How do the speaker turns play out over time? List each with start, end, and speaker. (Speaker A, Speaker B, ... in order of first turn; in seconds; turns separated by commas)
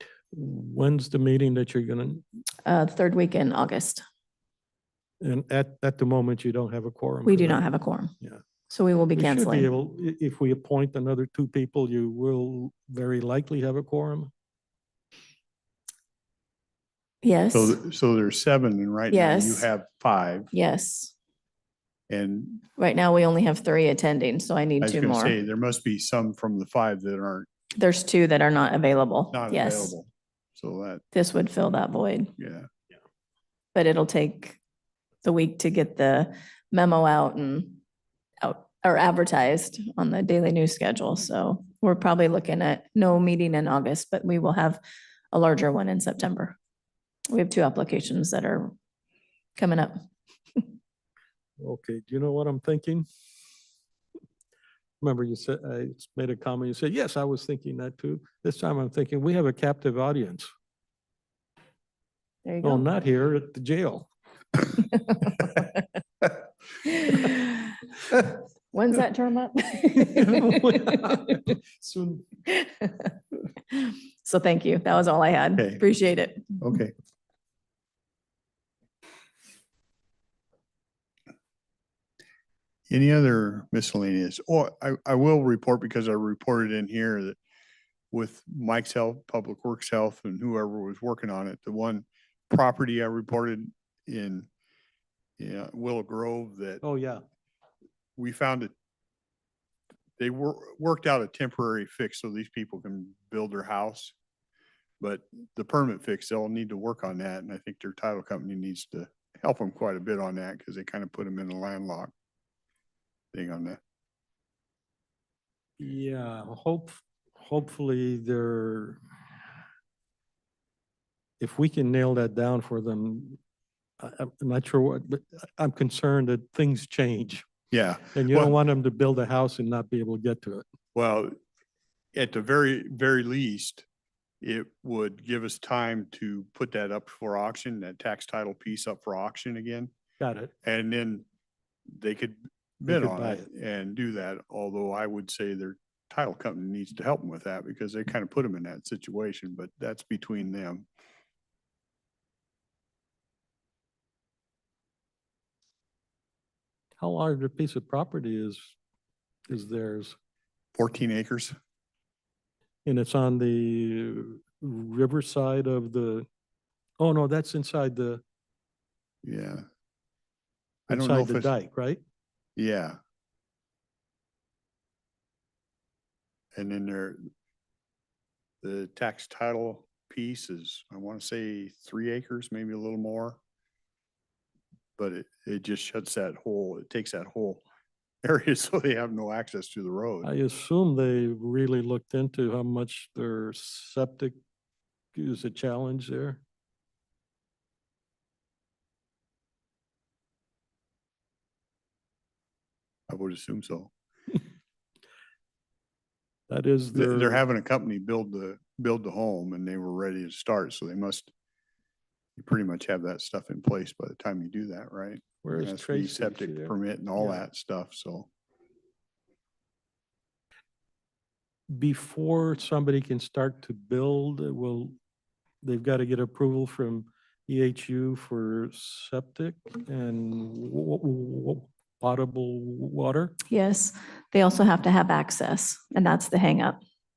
Speaker A: 0.3-2.2, Speaker B: 2.6-4.0, Speaker A: 5.2-7.6, Speaker B: 7.2-8.1, Speaker B: 8.7-9.7, Speaker A: 9.2-14.3, Speaker B: 17.2-17.8, Speaker C: 17.5-20.5, Speaker B: 19.1-19.7, Speaker B: 20.5-21.1, Speaker C: 22.1-22.6, Speaker B: 22.8-25.4, Speaker C: 24.8-27.5, Speaker B: 27.8-29.9, Speaker C: 29.3-31.0, Speaker B: 31.1-32.3, Speaker C: 32.4-32.7, Speaker B: 33.8-34.6, Speaker B: 35.2-37.8, Speaker B: 38.4-44.8, Speaker B: 45.3-46.6, Speaker B: 47.3-48.7, Speaker B: 49.6-50.0, Speaker A: 51.6-53.1, Speaker A: 55.0-60.5, Speaker B: 62.5-62.9, Speaker A: 62.6-64.1, Speaker B: 65.1-65.5, Speaker B: 66.9-67.8, Speaker B: 68.7-71.4, Speaker A: 70.0-72.3, Speaker B: 72.5-73.1, Speaker B: 73.7-76.6, Speaker C: 75.6-75.8, Speaker C: 76.6-76.9, Speaker C: 82.9-87.4, Speaker C: 88.1-94.5, Speaker C: 95.4-96.8, Speaker A: 96.8-97.2, Speaker C: 98.2-98.7, Speaker C: 100.2-104.2, Speaker C: 105.0-112.1, Speaker C: 113.3-113.8, Speaker A: 115.8-119.0, Speaker A: 121.4-123.4, Speaker A: 124.0-127.5, Speaker C: 127.7-128.6, Speaker A: 128.1-130.7, Speaker C: 130.9-131.3, Speaker C: 132.1-133.9, Speaker C: 134.4-139.9, Speaker A: 140.2-140.5, Speaker C: 140.6-141.2, Speaker C: 141.9-150.9, Speaker A: 142.9-143.5, Speaker A: 157.0-158.7, Speaker A: 159.5-160.2, Speaker C: 160.8-161.6, Speaker A: 162.8-166.3, Speaker A: 167.0-168.2, Speaker C: 169.2-169.6, Speaker C: 170.9-171.5, Speaker A: 170.9-172.0, Speaker C: 172.6-173.0, Speaker C: 176.6-177.2, Speaker C: 178.6-183.4, Speaker C: 185.0-187.6, Speaker C: 188.2-190.3, Speaker A: 190.2-194.3, Speaker A: 195.2-196.4, Speaker C: 203.1-203.9, Speaker A: 206.5-207.4, Speaker C: 206.9-211.3, Speaker C: 212.4-218.3, Speaker A: 215.4-217.4, Speaker A: 221.7-224.9, Speaker A: 225.6-233.4, Speaker B: 233.5-236.8